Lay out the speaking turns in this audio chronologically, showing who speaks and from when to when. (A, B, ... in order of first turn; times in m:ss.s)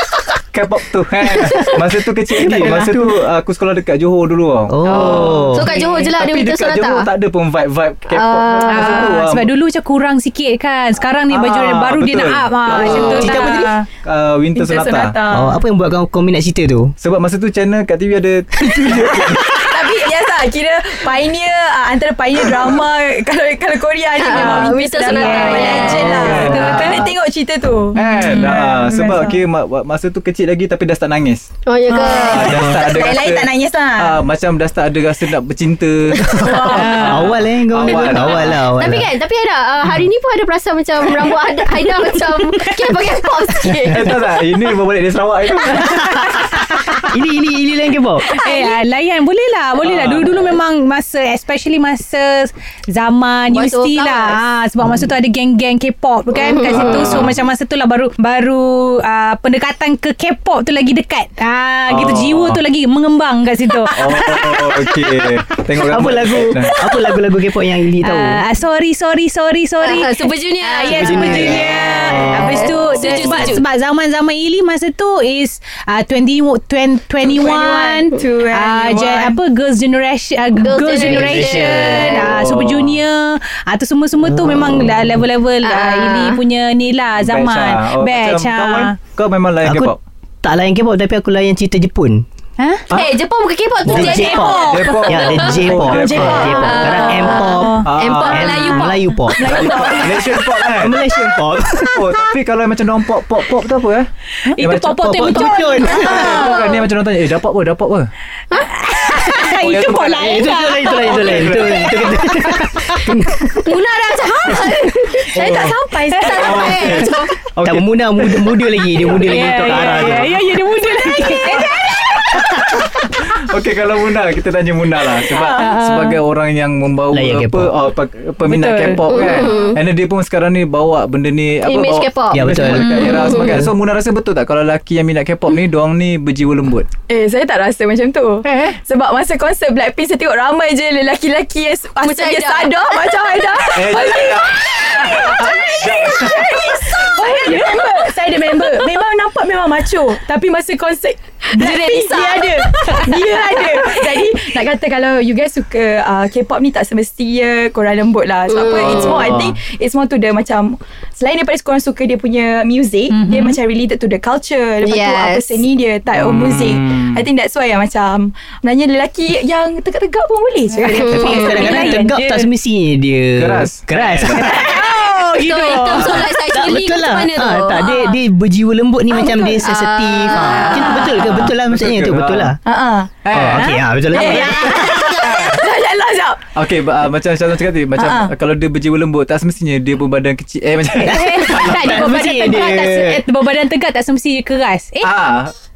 0:00.4-0:09.5 A
0:01.4-0:01.8 B
0:02.4-0:03.2 B
0:04.7-0:05.8 B
0:04.8-0:07.1 C
0:08.1-0:09.2 C
0:08.7-0:13.8 D
0:11.3-0:15.2 A
0:12.7-0:13.7 B
0:14.5-0:15.6 E
0:15.3-0:16.9 B
0:17.0-0:19.7 A
0:19.5-0:29.4 E
0:24.2-0:26.2 C
0:25.0-0:27.1 D
0:25.9-0:26.9 B
0:26.0-0:27.1 A
0:27.9-0:31.5 A
0:28.0-0:28.5 D
0:31.7-0:32.7 C
0:31.9-0:34.2 E
0:32.0-0:38.6 A
0:32.5-0:32.8 B
0:36.2-0:39.1 B
0:36.2-0:37.1 E
0:36.7-0:37.3 D
0:38.0-0:44.2 C
0:42.6-0:43.0 D
0:43.8-0:46.6 A
0:45.7-0:47.0 D
0:46.0-0:46.3 B
0:47.0-0:48.4 B
0:48.2-1:05.4 D
0:48.3-0:48.8 C
0:49.8-0:50.5 A
0:53.5-0:54.4 C
0:56.3-0:57.2 C
0:56.7-0:57.4 A
1:01.9-1:02.6 A
1:03.9-1:06.7 A
1:05.8-1:08.4 B
1:06.7-1:07.2 D
1:08.0-1:29.0 D
1:09.8-1:13.6 C
1:10.9-1:12.7 B
1:12.9-1:13.5 A
1:17.3-1:19.4 E
1:20.6-1:22.3 C
1:20.9-1:22.2 B
1:22.2-1:23.0 A
1:25.6-1:26.4 C
1:27.2-1:30.0 A
1:29.6-1:32.2 B
1:32.6-1:32.8 D
1:32.9-1:35.6 C
1:33.8-1:39.7 B
1:33.9-1:35.5 D
1:34.6-1:36.7 A
1:35.7-1:37.8 E
1:36.5-1:39.9 C
1:37.5-1:37.8 D
1:37.8-1:38.8 A
1:39.3-1:40.6 E
1:39.4-1:41.1 A
1:40.7-1:42.1 B
1:41.7-1:45.4 A
1:44.5-1:46.6 D
1:44.9-1:46.5 B
1:45.4-1:46.8 C
1:46.1-1:48.1 A
1:46.3-1:46.6 E
1:48.6-1:53.0 D
1:49.3-1:52.5 A
1:50.2-1:53.6 B
1:53.6-1:55.6 C
1:55.2-1:57.3 E
1:55.3-1:55.8 A
1:56.2-1:57.0 D
1:56.2-1:57.2 C
1:56.3-1:58.6 A
1:57.6-2:00.4 B
1:59.2-2:03.0 D
1:59.3-2:00.4 A
2:01.3-2:16.9 A
2:05.3-2:06.2 D
2:05.4-2:05.6 E
2:07.1-2:07.7 B
2:08.5-2:09.4 D
2:09.1-2:09.8 C
2:11.6-2:13.6 C
2:12.3-2:13.7 B
2:17.1-2:52.1 E
2:18.4-2:18.8 A
2:22.0-2:23.0 C
2:23.6-2:27.1 A
2:27.1-2:29.1 D
2:31.5-2:32.6 C
2:32.7-2:34.3 D
2:38.5-2:39.3 C
2:38.7-2:39.6 A
2:43.1-2:43.6 D
2:44.8-2:45.6 C
2:46.1-2:47.3 A
2:50.7-2:52.5 D
2:50.9-2:55.2 B
2:50.9-2:51.8 C
2:53.4-2:54.7 A
2:54.3-2:56.3 D
2:54.8-2:58.2 C
2:55.7-3:02.6 B
2:59.1-3:01.1 C
3:00.4-3:01.3 D
3:01.1-3:02.6 A
3:02.6-3:03.3 E
3:03.2-3:05.6 A
3:03.3-3:05.1 B
3:04.1-3:06.4 E
3:04.2-3:05.6 C
3:06.5-3:12.1 A
3:08.0-3:08.3 E
3:11.0-3:13.2 B
3:11.1-3:15.1 D
3:15.0-3:15.5 A